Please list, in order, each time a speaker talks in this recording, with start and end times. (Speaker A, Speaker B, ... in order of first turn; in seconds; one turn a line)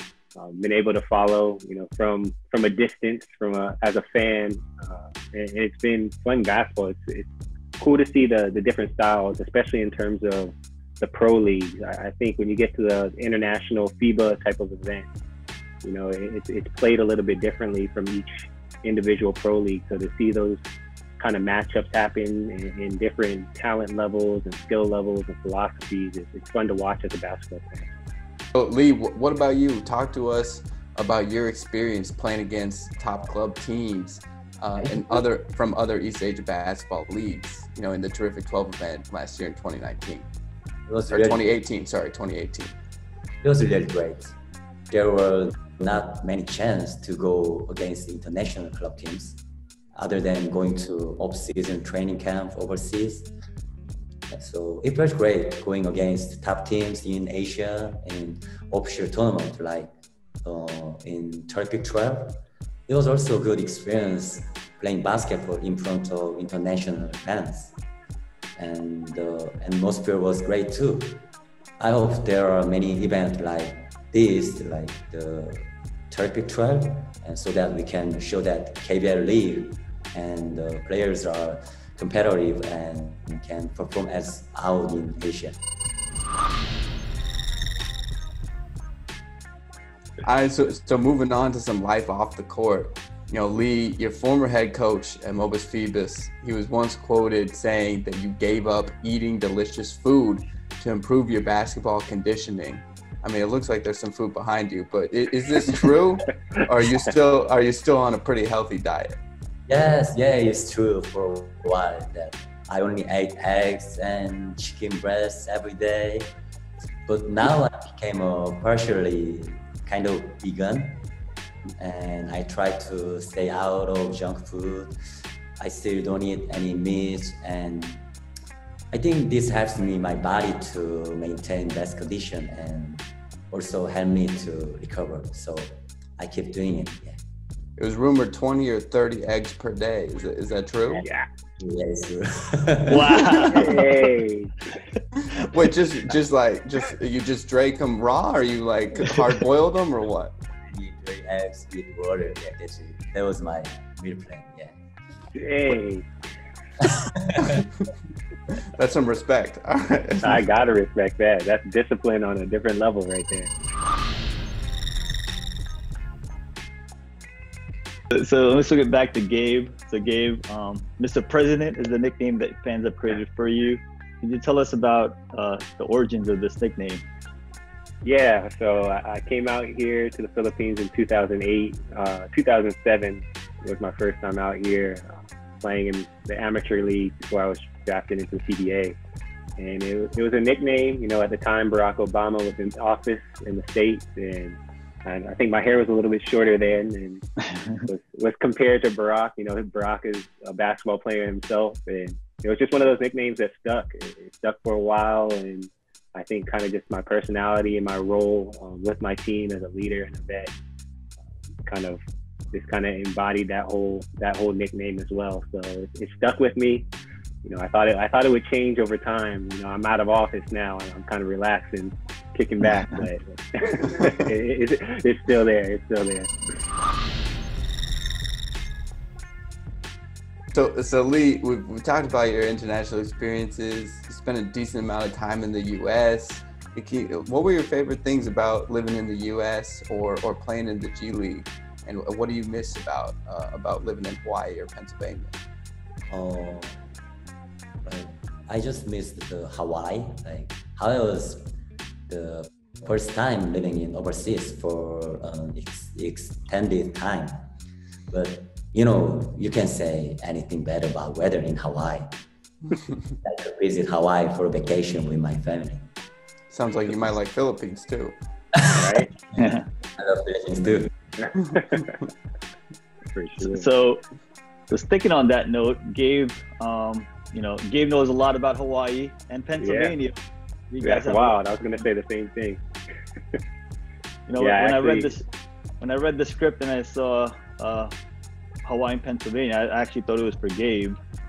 Speaker A: 0.3-7.3
Speaker A: 7.8-15.1
Speaker A: 15.8-20.6
Speaker A: 21.2-27.9
Speaker B: 28.5-40.3
Speaker C: 40.9-41.4
Speaker B: 41.1-42.8
Speaker C: 43.4-44.3
Speaker C: 44.9-49.4
Speaker C: 50.0-53.3
Speaker C: 54.3-59.9
Speaker C: 60.4-67.7
Speaker C: 68.5-71.2
Speaker C: 71.8-85.6
Speaker B: 90.2-109.2
Speaker C: 109.7-116.3
Speaker C: 117.0-121.0
Speaker C: 121.8-125.0
Speaker C: 125.6-128.0
Speaker C: 128.9-137.2
Speaker B: 137.8-141.0
Speaker A: 140.9-141.2
Speaker C: 141.6-143.2
Speaker D: 142.8-144.1
Speaker A: 143.5-144.7
Speaker B: 145.2-150.3
Speaker C: 150.7-154.7
Speaker A: 155.3-156.1
Speaker B: 158.6-160.4
Speaker A: 160.2-163.5
Speaker D: 168.1-177.0
Speaker A: 178.0-189.0
Speaker A: 189.6-210.5
Speaker A: 211.7-212.0
Speaker A: 212.5-216.9
Speaker A: 217.4-226.3
Speaker B: 230.5-245.3
Speaker C: 246.1-246.8
Speaker C: 247.8-251.5
Speaker C: 252.1-257.5
Speaker C: 258.1-262.1
Speaker C: 263.2-265.9
Speaker B: 266.5-268.1
Speaker C: 268.5-270.9
Speaker A: 268.7-269.1
Speaker D: 269.4-269.6
Speaker A: 271.3-271.9
Speaker A: 273.1-273.7
Speaker D: 273.4-274.0
Speaker D: 274.7-280.1
Speaker A: 279.6-279.9
Speaker D: 280.7-281.4
Speaker A: 280.8-282.6
Speaker D: 284.3-285.2
Speaker A: 284.4-285.1
Speaker D: 285.8-287.9
Speaker D: 288.6-291.0